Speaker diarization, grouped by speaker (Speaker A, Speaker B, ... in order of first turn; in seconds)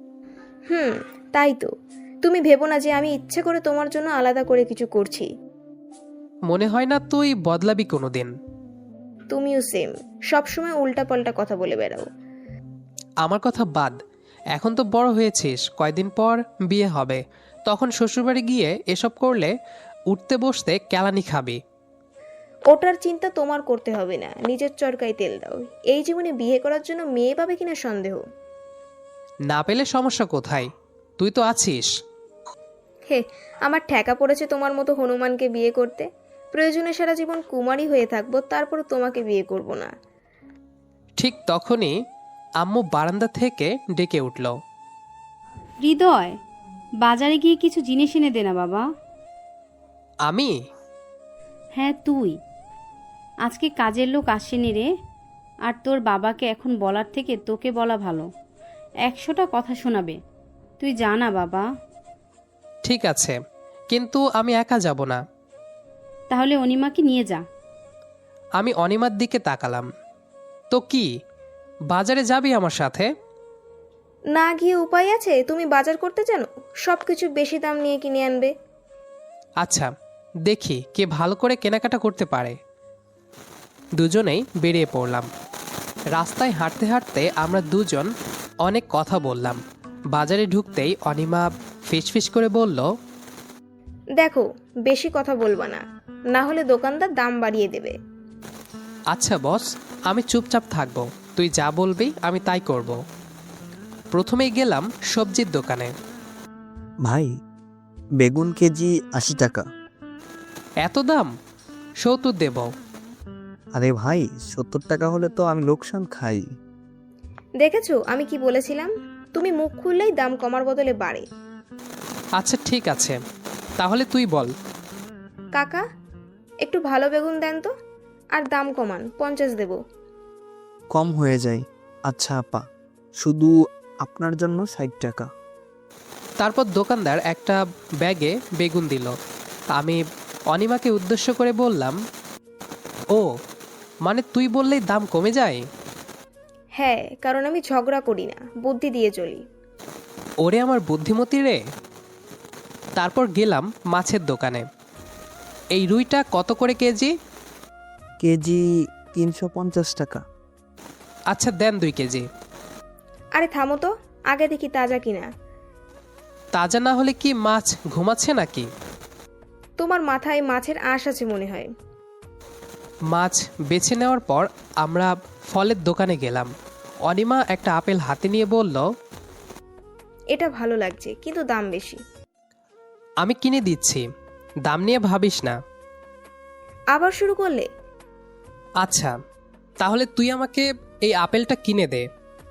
Speaker A: 0.7-1.7, 2.2-5.3, 9.3-12.1, 22.7-28.2, 33.1-39.9, 74.3-78.5, 94.2-98.0, 117.6-121.3, 125.5-125.8, 126.6-127.7, 128.3-129.8, 146.8-149.4, 163.4-165.3, 169.8-171.7, 180.3-182.0, 186.9-187.7
Speaker B: 6.5-8.3, 13.2-14.0, 14.5-19.5, 20.1-21.6, 29.5-30.7, 31.2-31.9, 41.2-42.0, 42.6-44.5, 50.3-50.5, 62.9-63.4, 63.9-65.2, 68.6-69.9, 70.7-71.1, 71.9-73.1, 79.6-79.9, 80.5-82.6, 84.0-85.3, 86.2-88.1, 88.6-89.6, 90.1-92.9, 99.1-103.0, 104.1-105.9, 110.8-111.3, 112.0-112.7, 122.4-123.2, 123.8-124.5, 136.4-139.2, 139.8-142.0, 144.0-145.6, 150.4-151.6, 153.0-154.7, 155.8-157.1, 161.3-162.3, 166.6-168.7, 173.1-176.5, 177.1-178.9, 183.2-184.1, 184.7-185.6, 188.8-189.1, 189.8-192.1
Speaker C: 45.8-46.4, 47.0-48.9, 51.8-52.4, 53.5-54.9, 55.7-58.3, 59.1-60.2, 60.8-61.7, 66.3-67.4
Speaker D: 107.0-107.4, 108.2-109.7, 113.7-116.5, 130.9-135.3, 158.2-160.2